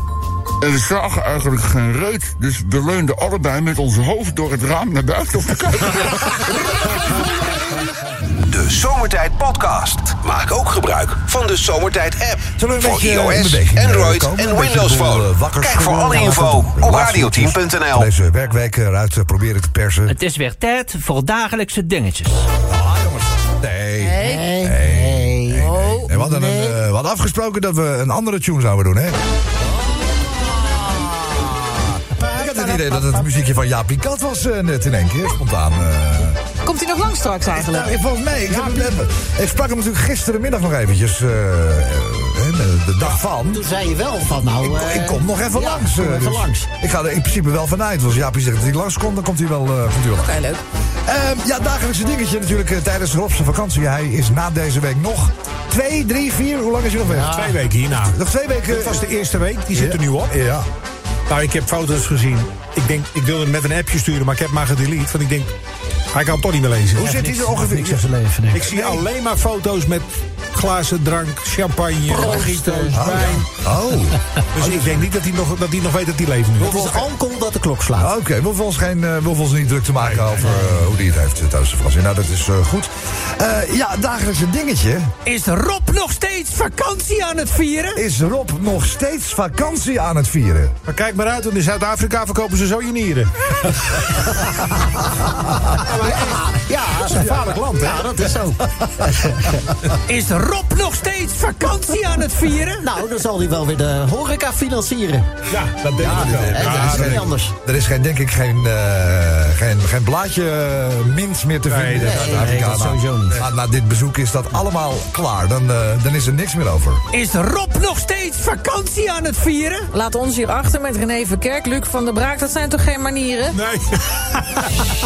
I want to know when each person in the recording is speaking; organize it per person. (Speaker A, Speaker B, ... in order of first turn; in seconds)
Speaker A: 0.6-6.5
Speaker B: 8.4-18.1
Speaker C: 12.6-20.1, 22.7-29.2, 32.3-36.4, 37.5-43.6, 44.6-50.4, 51.0-57.5, 58.0-59.0, 59.7-60.6, 66.9-68.1, 72.9-74.9, 78.0-85.1, 87.9-90.8, 105.9-117.0
Speaker D: 20.1-22.4, 67.0-69.0, 72.2-72.9, 85.2-88.0, 100.0-102.8, 112.4-113.4, 117.1-119.9
Speaker E: 24.0-24.6, 25.6-26.1, 36.6-37.9, 50.2-50.6, 119.9-123.6
Speaker F: 24.2-26.8, 43.5-46.7, 72.1-73.1, 76.6-78.1, 95.8-99.6, 102.8-105.4, 106.0-107.5, 112.0-112.6
Speaker G: 57.0-58.2, 58.7-60.4, 61.3-65.5, 66.1-67.5, 68.5-73.5, 74.5-77.0, 80.0-80.4, 90.8-94.1, 95.8-98.1, 105.5-107.3, 111.7-112.3, 123.5-124.7